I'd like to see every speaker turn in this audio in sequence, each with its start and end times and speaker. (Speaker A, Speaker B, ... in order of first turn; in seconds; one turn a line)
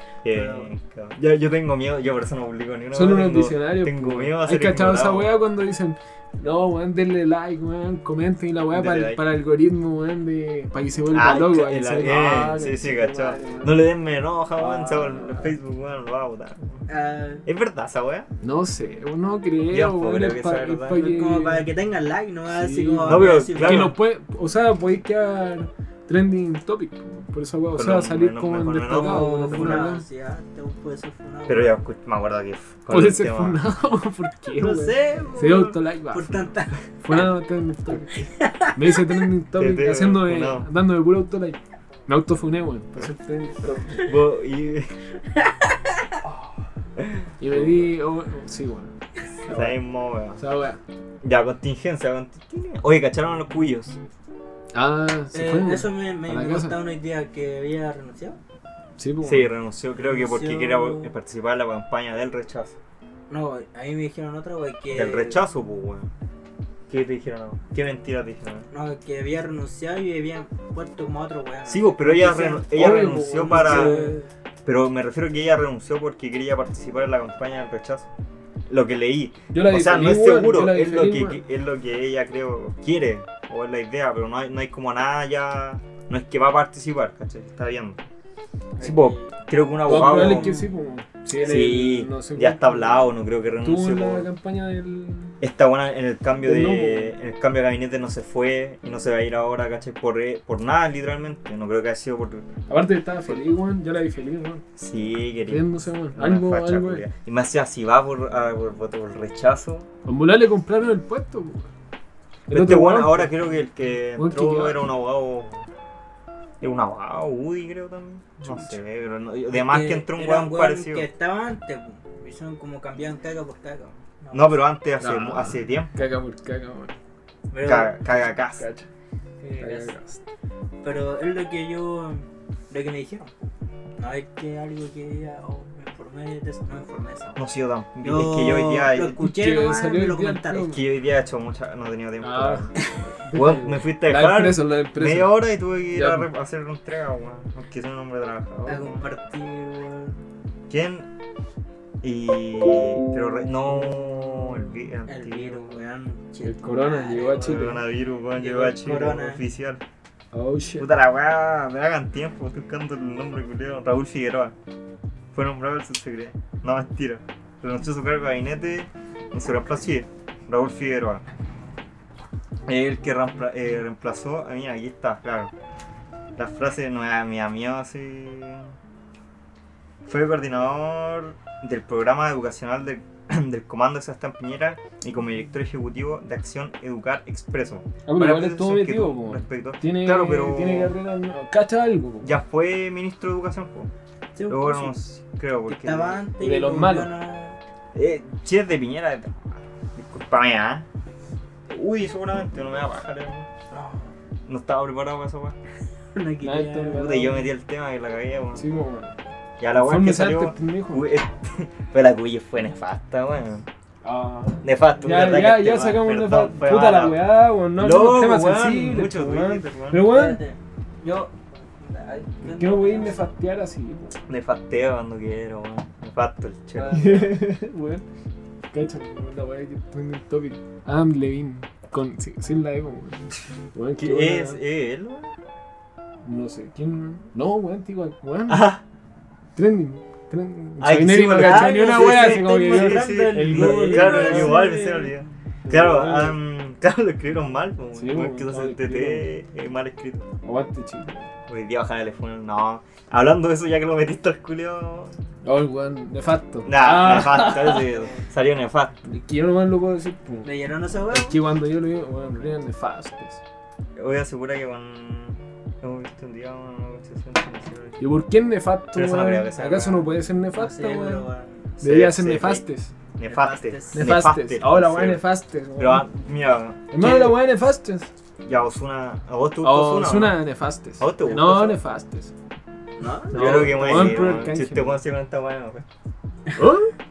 Speaker A: 0.2-5.3
Speaker B: 0.3-0.7
Speaker C: 2.9-13.8
Speaker A: 8.7-9.2
Speaker A: 11.1-16.9
Speaker C: 14.6-15.6
Speaker B: 16.9-17.4
Speaker A: 17.4-18.3
Speaker C: 18.4-21.7
Speaker A: 19.7-21.1
Speaker B: 20.9-23.9
Speaker C: 22.5-30.0
Speaker A: 23.1-23.9
Speaker A: 27.8-29.9
Speaker B: 28.9-31.9
Speaker A: 31.5-33.6
Speaker C: 32.9-44.1
Speaker B: 34.5-36.8
Speaker B: 38.2-39.0
Speaker A: 39.6-40.7
Speaker A: 43.9-45.0
Speaker B: 45.4-46.0
Speaker C: 46.2-46.7
Speaker A: 47.0-47.8
Speaker C: 47.4-48.9
Speaker A: 49.5-50.4
Speaker C: 49.5-49.8
Speaker C: 50.4-50.8
Speaker A: 51.2-54.0
Speaker C: 54.7-56.8
Speaker B: 55.3-58.4
Speaker C: 59.0-59.5
Speaker A: 59.2-62.8
Speaker B: 60.0-61.1
Speaker B: 63.3-65.4
Speaker A: 64.9-66.1
Speaker A: 66.9-68.7
Speaker B: 68.7-74.3
Speaker A: 71.7-74.0
Speaker C: 72.7-74.2
Speaker A: 74.7-78.1
Speaker A: 78.7-88.0
Speaker C: 79.5-81.4
Speaker B: 88.8-90.6
Speaker A: 88.8-90.6
Speaker C: 89.8-93.1
Speaker A: 91.4-94.3
Speaker C: 93.6-95.4
Speaker A: 95.4-102.5
Speaker C: 96.4-97.1
Speaker C: 102.7-104.7
Speaker A: 104.8-109.9
Speaker C: 105.5-107.1
Speaker C: 110.0-111.7
Speaker C: 112.5-113.3
Speaker A: 112.5-115.7
Speaker C: 114.2-114.9
Speaker A: 116.6-121.1
Speaker C: 118.4-118.8
Speaker B: 119.5-124.7
Speaker A: 124.3-126.0
Speaker C: 125.0-126.9
Speaker B: 127.5-128.0
Speaker A: 127.6-128.7
Speaker C: 128.6-128.9
Speaker B: 129.4-129.9
Speaker C: 129.6-130.2
Speaker B: 130.8-133.4
Speaker B: 134.0-137.4
Speaker A: 137.4-139.2
Speaker B: 138.0-140.8
Speaker C: 139.2-140.8
Speaker A: 140.7-142.8
Speaker C: 142.2-146.3
Speaker A: 143.3-149.1
Speaker B: 148.7-150.2
Speaker A: 150.7-151.1
Speaker A: 152.0-155.8
Speaker B: 155.1-157.8
Speaker C: 156.4-157.8
Speaker A: 157.4-159.8
Speaker B: 158.3-159.4
Speaker C: 160.3-160.9
Speaker A: 160.8-164.6
Speaker A: 165.3-171.2
Speaker A: 172.7-175.5
Speaker A: 176.4-178.7
Speaker A: 180.1-190.9
Speaker C: 188.1-192.3
Speaker A: 192.2-193.9
Speaker B: 194.3-195.0
Speaker A: 194.5-196.2
Speaker B: 195.7-197.6
Speaker C: 196.4-197.1
Speaker A: 197.9-200.9
Speaker A: 201.7-203.5
Speaker A: 204.5-205.6
Speaker B: 206.1-207.4
Speaker C: 206.4-207.4
Speaker A: 206.9-208.7
Speaker C: 208.6-209.2
Speaker A: 209.6-213.7
Speaker C: 209.7-211.1
Speaker C: 214.0-220.4
Speaker A: 214.6-220.1
Speaker B: 219.9-223.2
Speaker C: 222.4-224.2
Speaker A: 224.3-227.4
Speaker C: 226.8-228.1
Speaker C: 228.7-234.6
Speaker A: 234.0-235.3
Speaker C: 236.2-238.7
Speaker A: 238.5-238.8
Speaker C: 239.6-244.7
Speaker A: 240.8-250.3
Speaker B: 241.3-245.2
Speaker C: 245.7-246.4
Speaker C: 248.0-249.3
Speaker C: 250.4-251.3
Speaker A: 251.5-255.2
Speaker C: 255.4-257.9
Speaker A: 256.6-259.0
Speaker B: 257.8-258.2
Speaker C: 259.1-260.5
Speaker B: 260.4-261.4
Speaker C: 261.1-263.4
Speaker A: 264.0-268.0
Speaker C: 268.0-271.3
Speaker A: 268.9-270.1
Speaker B: 270.5-271.8
Speaker C: 271.8-272.9
Speaker A: 271.8-272.7
Speaker A: 273.2-275.2
Speaker B: 273.2-274.2
Speaker C: 273.9-276.1
Speaker A: 275.8-277.4
Speaker C: 276.9-278.1
Speaker A: 278.4-280.4
Speaker C: 279.6-282.3
Speaker A: 281.0-281.8
Speaker B: 283.0-284.4
Speaker A: 283.3-285.9
Speaker C: 283.3-285.0
Speaker C: 286.6-286.9